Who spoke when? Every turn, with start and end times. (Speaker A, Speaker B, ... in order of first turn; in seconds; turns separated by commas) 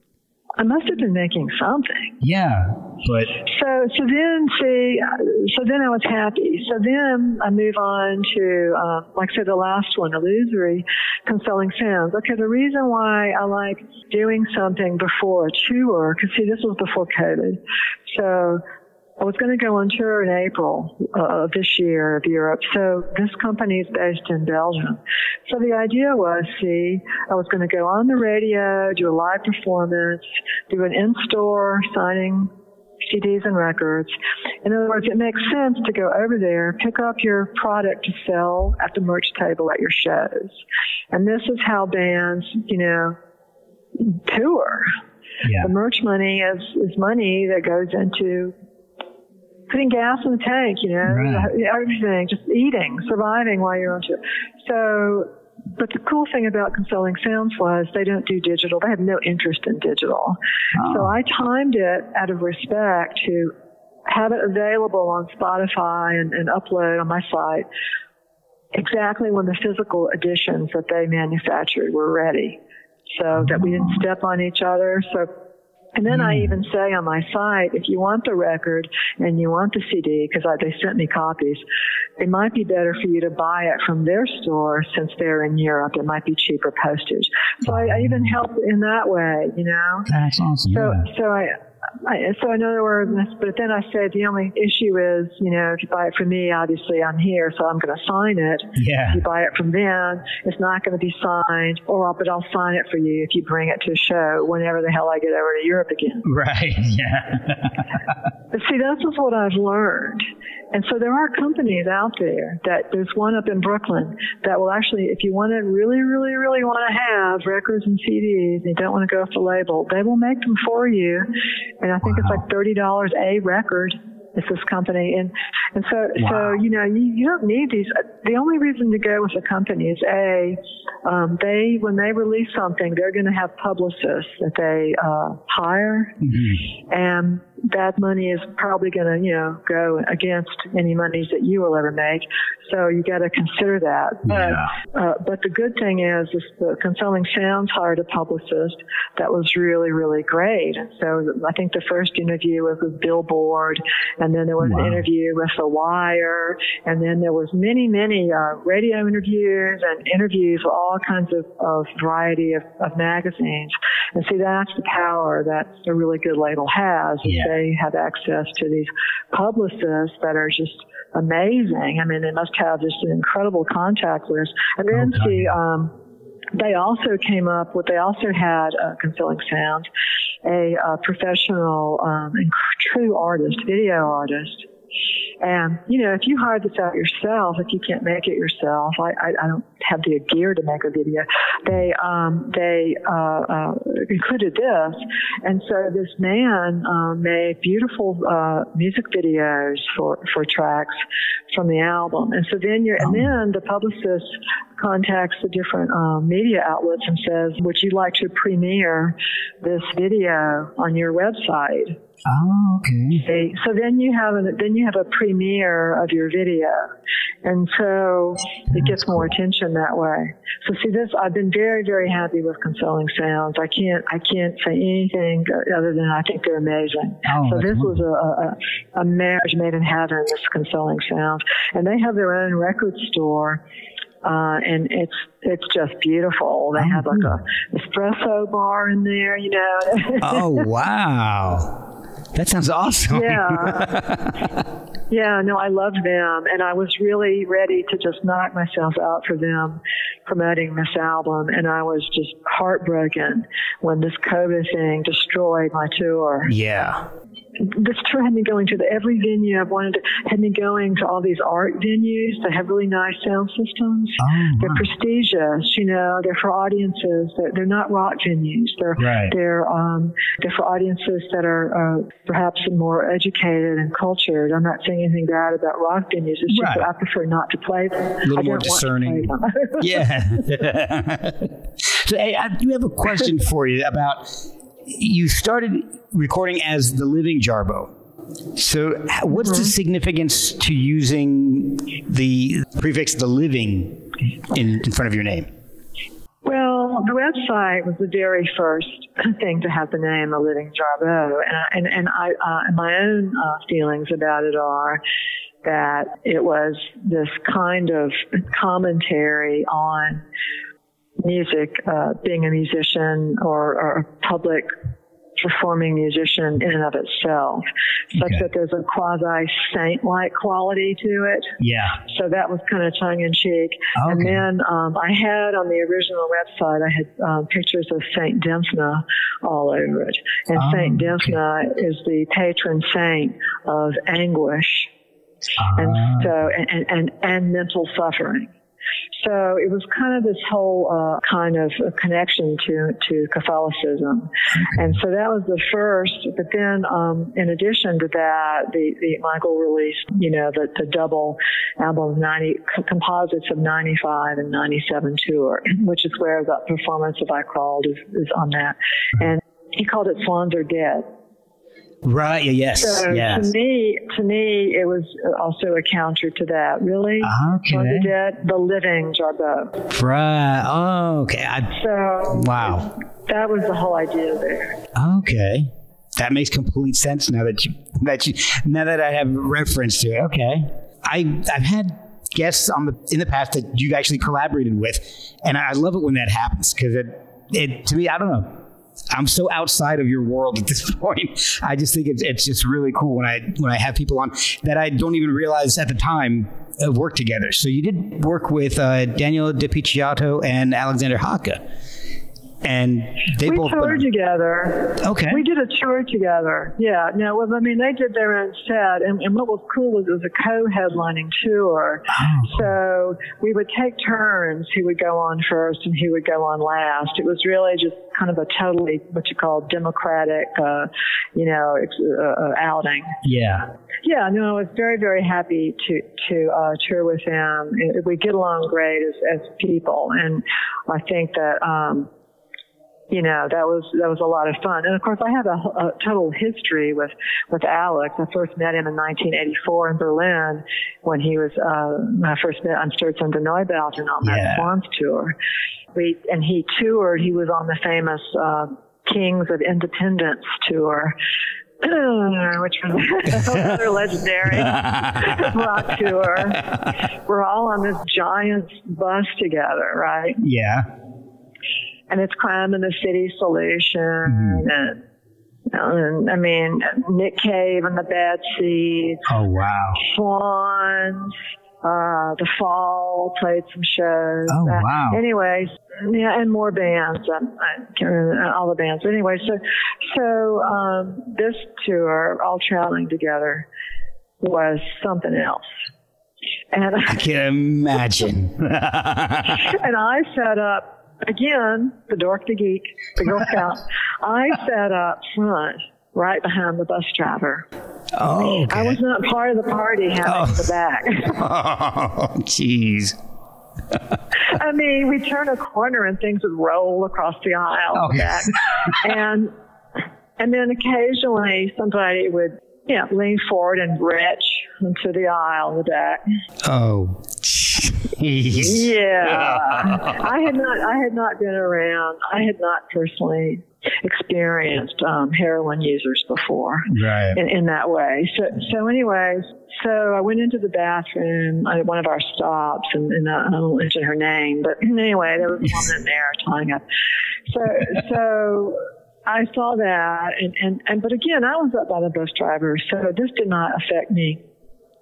Speaker A: 0.6-2.1, Speaker B: 2.2-3.4, Speaker A: 3.4-18.6, Speaker A: 19.2-32.5, Speaker A: 33.0-34.1, Speaker A: 34.6-40.6, Speaker A: 41.1-43.2, Speaker A: 44.0-44.9, Speaker B: 45.4-45.7, Speaker A: 45.6-48.5, Speaker A: 49.7-63.5, Speaker B: 51.0-51.5, Speaker B: 60.8-61.1, Speaker A: 64.1-67.7, Speaker A: 68.7-72.6, Speaker A: 73.1-75.3, Speaker B: 73.3-73.8, Speaker A: 75.9-81.6, Speaker B: 76.1-76.5, Speaker A: 82.2-90.1, Speaker B: 87.6-88.3, Speaker B: 90.1-91.0, Speaker A: 90.7-106.2, Speaker B: 98.8-99.2, Speaker B: 106.2-108.0, Speaker A: 108.5-121.3, Speaker A: 121.8-136.1, Speaker B: 122.0-122.4, Speaker B: 126.2-126.5, Speaker B: 136.2-136.6, Speaker A: 136.9-175.9, Speaker B: 144.3-144.7, Speaker B: 154.6-155.0, Speaker B: 167.2-167.5, Speaker B: 174.9-175.5, Speaker A: 176.5-179.9, Speaker A: 180.4-184.7, Speaker A: 185.4-201.0, Speaker A: 201.5-211.9, Speaker B: 203.0-203.3, Speaker B: 212.2-213.2, Speaker A: 213.1-216.9, Speaker A: 217.4-233.6, Speaker B: 218.7-219.0, Speaker B: 227.2-228.0, Speaker A: 234.2-240.6, Speaker B: 236.8-237.4, Speaker B: 240.2-241.8, Speaker B: 242.3-244.6, Speaker A: 243.1-243.9, Speaker A: 245.1-256.5, Speaker B: 256.4-257.0, Speaker A: 257.6-280.1, Speaker B: 264.2-264.9, Speaker B: 269.0-269.3, Speaker B: 276.5-276.9, Speaker B: 278.2-287.9, Speaker B: 288.5-295.5, Speaker A: 289.4-289.7, Speaker A: 296.4-305.0, Speaker A: 305.6-310.2, Speaker A: 311.2-314.7, Speaker A: 315.4-321.5, Speaker B: 318.1-318.4, Speaker B: 321.6-322.0, Speaker A: 322.1-334.9, Speaker B: 323.9-324.4, Speaker B: 330.5-331.4, Speaker B: 335.6-336.4, Speaker A: 335.8-338.5, Speaker A: 339.1-361.1, Speaker B: 344.5-344.9, Speaker B: 362.0-363.5, Speaker A: 362.8-369.7, Speaker B: 367.2-368.1, Speaker B: 369.9-371.8, Speaker A: 371.7-374.8, Speaker B: 372.3-372.9, Speaker B: 374.9-401.6, Speaker B: 402.6-404.1, Speaker A: 403.4-423.1, Speaker B: 405.0-405.4, Speaker B: 412.1-412.7, Speaker B: 423.2-423.7, Speaker A: 424.0-432.1, Speaker A: 433.1-445.3, Speaker B: 444.2-444.7, Speaker A: 445.9-451.1, Speaker A: 451.8-456.7, Speaker B: 454.4-455.6, Speaker A: 457.2-460.4, Speaker B: 460.4-460.9, Speaker A: 462.1-465.0, Speaker B: 464.2-464.6, Speaker A: 465.7-469.2, Speaker B: 469.3-470.0, Speaker A: 470.0-483.6, Speaker B: 474.5-475.2, Speaker A: 484.4-485.6, Speaker A: 486.7-487.2, Speaker B: 487.1-489.7, Speaker A: 489.5-497.6, Speaker B: 498.1-499.0, Speaker A: 498.6-501.4, Speaker B: 500.2-500.7, Speaker B: 501.3-503.2, Speaker A: 504.4-509.5, Speaker B: 507.9-508.9, Speaker A: 510.4-516.2, Speaker B: 516.6-520.2, Speaker A: 518.5-536.8, Speaker B: 526.9-527.4, Speaker A: 537.5-544.4